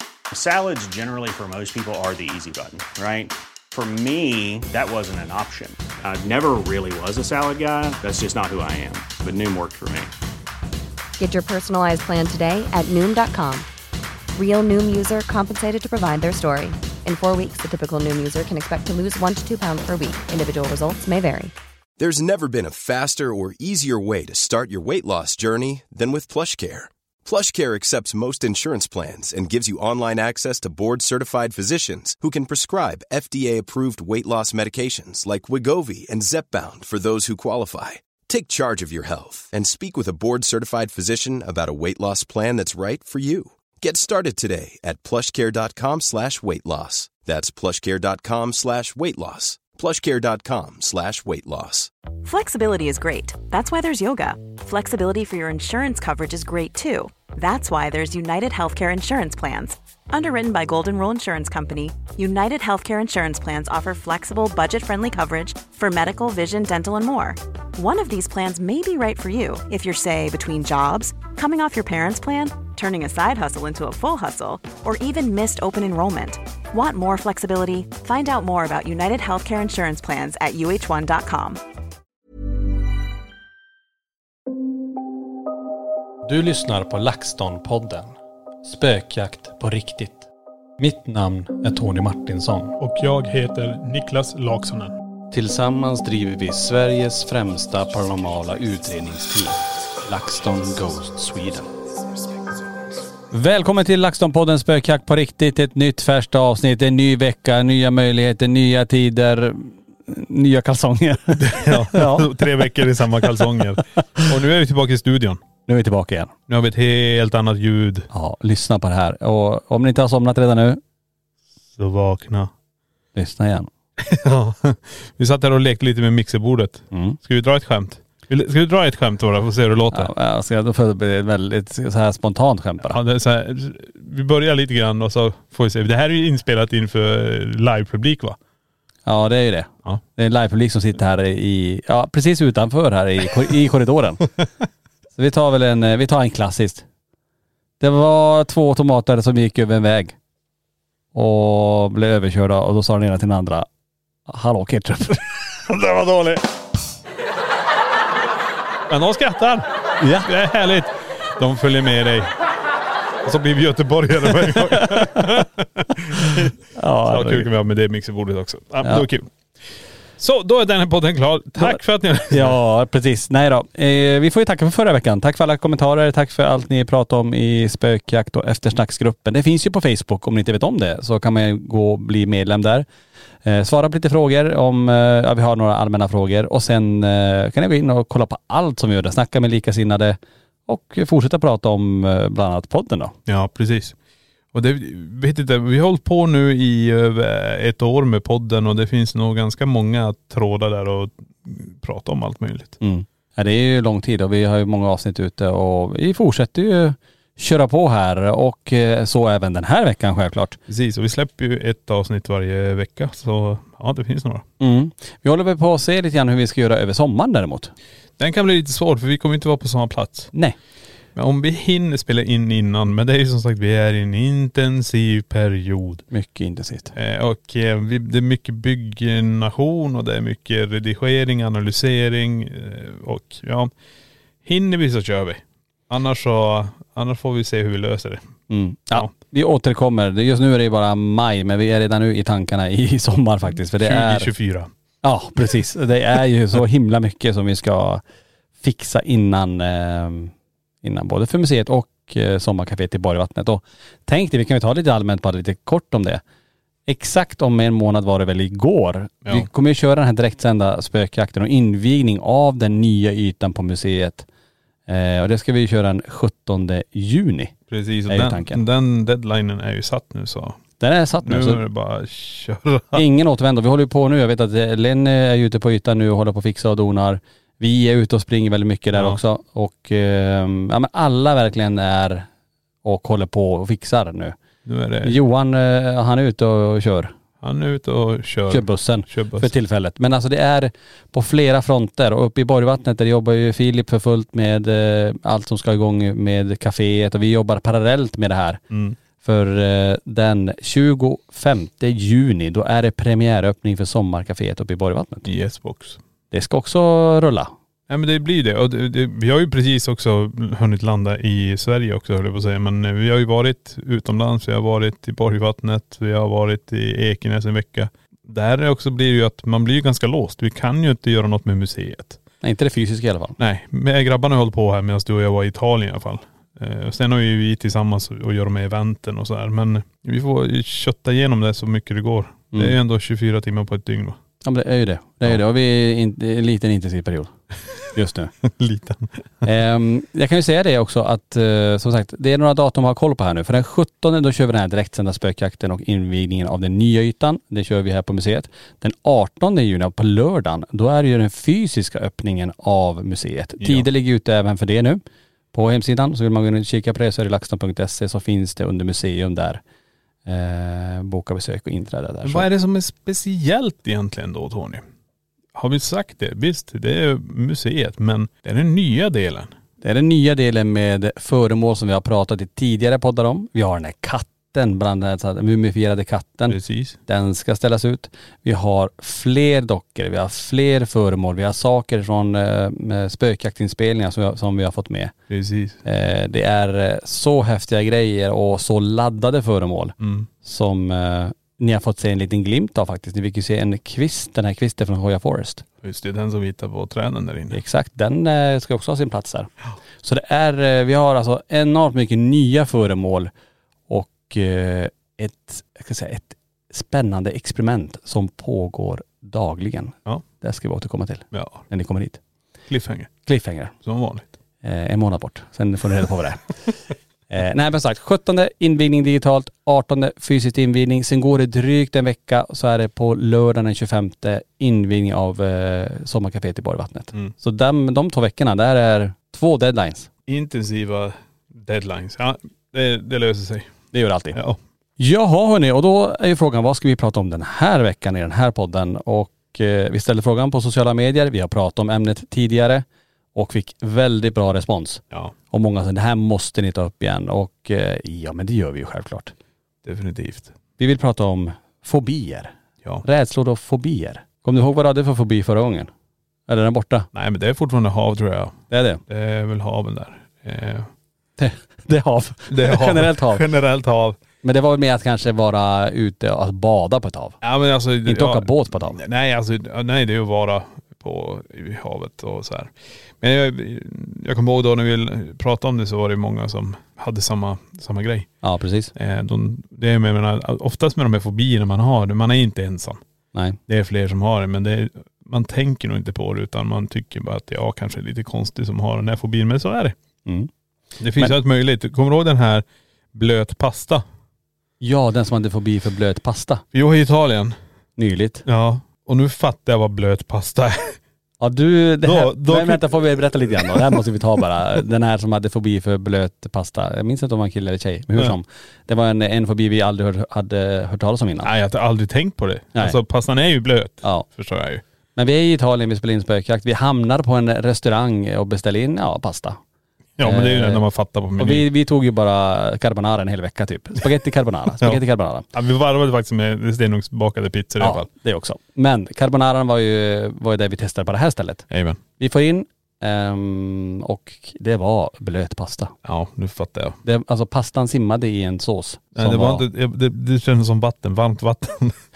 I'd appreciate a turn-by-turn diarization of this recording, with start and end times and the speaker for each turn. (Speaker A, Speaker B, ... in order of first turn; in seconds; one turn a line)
Speaker A: 0.3-10.1
Speaker B: 11.2-13.7
Speaker B: 14.3-21.5
Speaker C: 22.0-51.9
Speaker D: 52.2-81.6
Speaker E: 86.2-92.8
Speaker F: 92.8-94.9
Speaker E: 95.3-101.7
Speaker E: 103.3-112.3
Speaker F: 111.3-115.4
Speaker E: 115.7-116.3
Speaker F: 116.5-118.1
Speaker E: 118.1-120.8
Speaker F: 121.7-122.5
Speaker E: 123.1-123.7
Speaker F: 124.0-130.1
Speaker E: 126.9-127.2
Speaker E: 129.9-133.0
Speaker F: 132.8-138.4
Speaker E: 139.1-144.3
Speaker E: 145.2-146.8
Speaker E: 147.8-150.1
Speaker E: 151.1-153.7
Speaker E: 154.3-155.3
Speaker F: 155.7-156.4
Speaker F: 158.9-162.3
Speaker E: 160.0-160.3
Speaker F: 163.2-169.3
Speaker E: 164.7-165.4
Speaker E: 166.7-167.5
Speaker F: 170.2-172.6
Speaker E: 172.3-182.8
Speaker E: 183.4-193.1
Speaker F: 193.2-193.9
Speaker F: 194.5-202.8
Speaker E: 202.8-210.6
Speaker F: 210.7-214.4
Speaker E: 214.6-217.7
Speaker F: 218.2-220.3
Speaker F: 221.1-226.0
Speaker E: 226.1-226.9
Speaker F: 226.9-233.7
Speaker F: 234.4-238.2
Speaker E: 238.5-244.3
Speaker F: 243.7-244.7
Speaker E: 245.0-248.0
Speaker E: 248.6-250.3
Speaker E: 250.8-256.2
Speaker E: 256.9-264.3
Speaker E: 264.9-267.5
Speaker F: 267.7-270.6
Speaker E: 268.1-268.6
Speaker E: 270.8-271.6
Speaker F: 271.2-273.0
Speaker E: 272.9-282.3
Speaker F: 278.9-279.2
Speaker E: 282.8-284.4
Speaker F: 284.6-285.2
Speaker E: 285.0-287.1
Speaker F: 287.4-289.5
Speaker E: 288.5-298.6
Speaker F: 298.7-299.0
Speaker E: 299.2-305.3
Speaker F: 305.2-306.0
Speaker E: 306.3-307.5
Speaker F: 307.9-322.2
Speaker E: 322.4-323.4
Speaker F: 323.4-334.2
Speaker E: 332.5-332.8
Speaker E: 334.4-337.3
Speaker E: 337.9-338.3
Speaker F: 338.4-339.4
Speaker E: 339.4-355.0
Speaker F: 353.6-353.9
Speaker E: 355.5-359.6
Speaker E: 360.2-362.5
Speaker F: 362.2-364.8
Speaker F: 365.5-369.5
Speaker E: 369.8-385.1
Speaker F: 376.5-377.0
Speaker F: 385.3-385.8
Speaker E: 385.8-395.6
Speaker F: 390.0-390.3
Speaker F: 395.8-397.6
Speaker E: 397.5-399.5
Speaker E: 400.0-403.3
Speaker E: 403.9-412.2
Speaker F: 411.3-411.6
Speaker F: 412.7-413.1
Speaker E: 413.2-413.7
Speaker F: 413.8-414.3
Speaker E: 414.6-416.6
Speaker E: 417.3-430.1
Speaker F: 430.3-433.7
Speaker E: 433.9-434.4
Speaker F: 434.3-434.6
Speaker E: 435.0-449.3
Speaker F: 449.8-450.5
Speaker E: 450.8-452.5
Speaker E: 453.0-455.9
Speaker E: 456.5-457.1
Speaker F: 457.1-460.9
Speaker E: 458.7-459.0
Speaker E: 461.4-463.4
Speaker F: 462.5-464.2
Speaker E: 464.4-467.4
Speaker F: 467.4-478.3
Speaker E: 468.0-469.0
Speaker E: 478.4-478.9
Speaker F: 478.9-483.0
Speaker E: 483.3-483.6
Speaker F: 483.7-489.9
Speaker E: 490.2-490.5
Speaker F: 491.0-494.0
Speaker E: 494.8-496.6
Speaker F: 496.7-497.6
Speaker E: 498.0-498.4
Speaker F: 498.4-501.0
Speaker E: 501.4-511.5
Speaker F: 502.0-504.0
Speaker F: 511.4-514.8
Speaker E: 515.1-519.6
Speaker F: 520.2-521.6
Speaker E: 520.2-520.8
Speaker E: 521.4-525.5
Speaker F: 525.5-528.1
Speaker E: 527.8-531.6
Speaker F: 531.7-532.0
Speaker E: 532.2-535.9
Speaker F: 536.0-537.0
Speaker E: 537.0-539.6
Speaker F: 539.1-542.0